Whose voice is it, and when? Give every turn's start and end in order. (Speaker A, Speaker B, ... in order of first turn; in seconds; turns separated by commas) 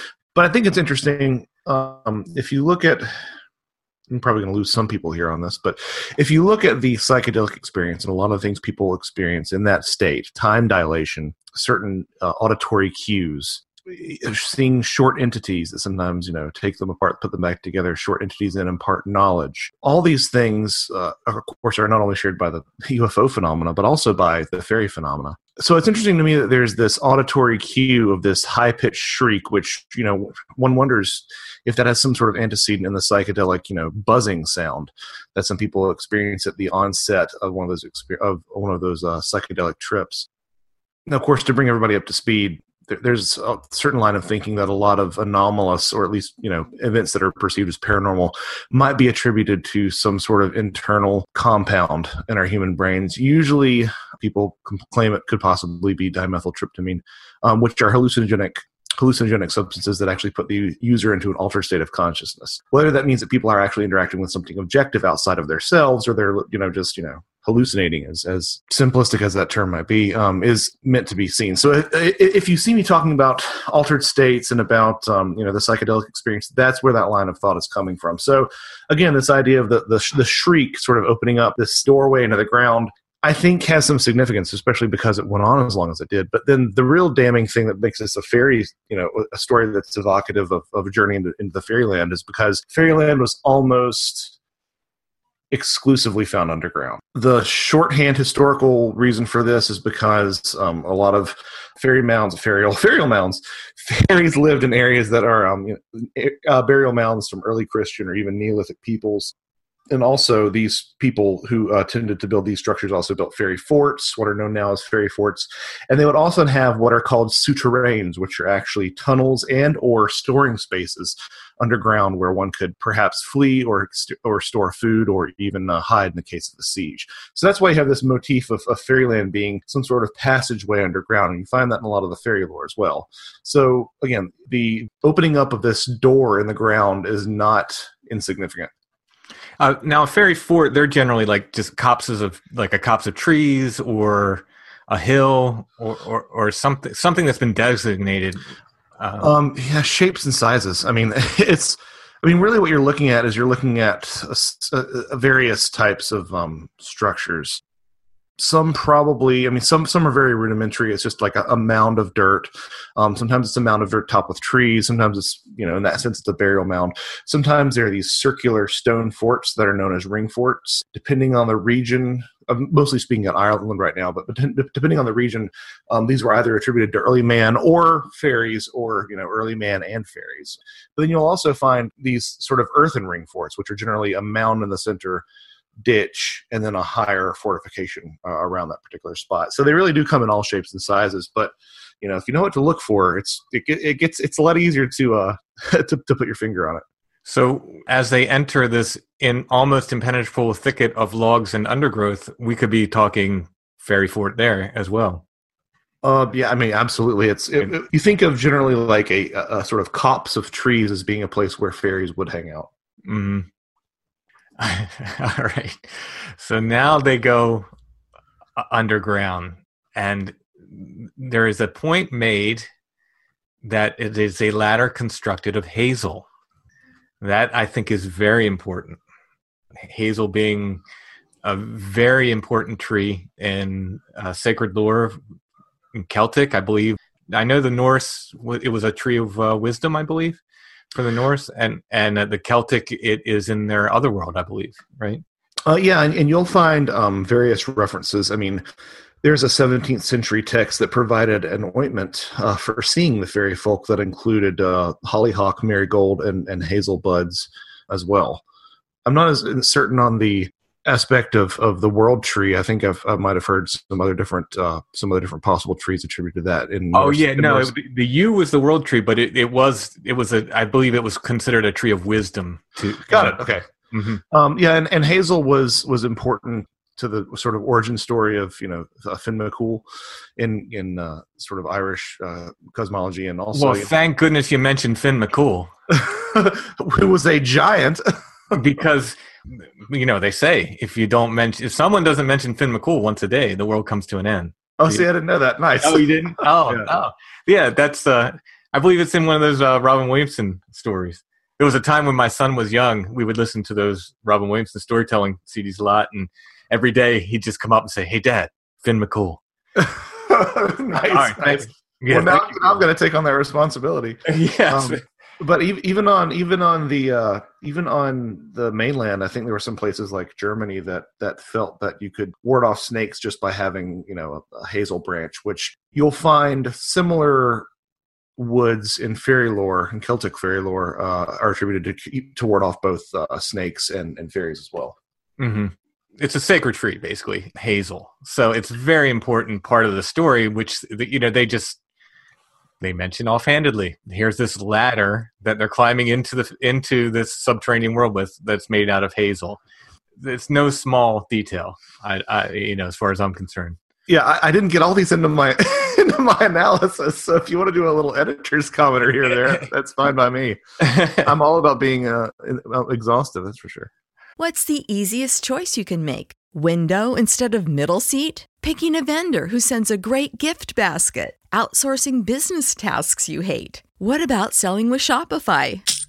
Speaker A: 0.3-3.1, Speaker A: 4.1-40.3, Speaker A: 41.1-94.3, Speaker A: 95.5-109.3, Speaker A: 109.9-138.7, Speaker B: 139.6-148.4, Speaker B: 149.0-149.3, Speaker A: 149.2-157.6, Speaker A: 158.4-185.2, Speaker A: 185.8-196.8, Speaker B: 197.2-205.2, Speaker A: 206.0-212.7, Speaker B: 213.1-213.5, Speaker B: 214.6-217.7, Speaker B: 218.6-222.7, Speaker B: 223.6-226.2, Speaker B: 227.2-229.0, Speaker B: 229.8-230.8, Speaker B: 231.4-235.2, Speaker B: 235.9-240.4, Speaker B: 240.9-245.2, Speaker A: 245.7-248.6, Speaker A: 249.2-258.4, Speaker A: 259.0-267.7, Speaker B: 266.9-274.2, Speaker A: 273.1-273.6, Speaker A: 274.3-279.9, Speaker A: 280.4-283.9, Speaker B: 283.5-285.7, Speaker A: 285.9-288.0, Speaker B: 288.5-295.0, Speaker A: 294.8-296.9, Speaker B: 295.8-309.4, Speaker A: 309.8-327.7, Speaker B: 310.9-312.8, Speaker B: 314.3-315.0, Speaker A: 328.4-335.0, Speaker B: 335.4-341.8, Speaker B: 342.8-349.6, Speaker B: 350.2-353.8, Speaker A: 354.1-363.9, Speaker B: 360.8-361.3, Speaker C: 364.4-375.8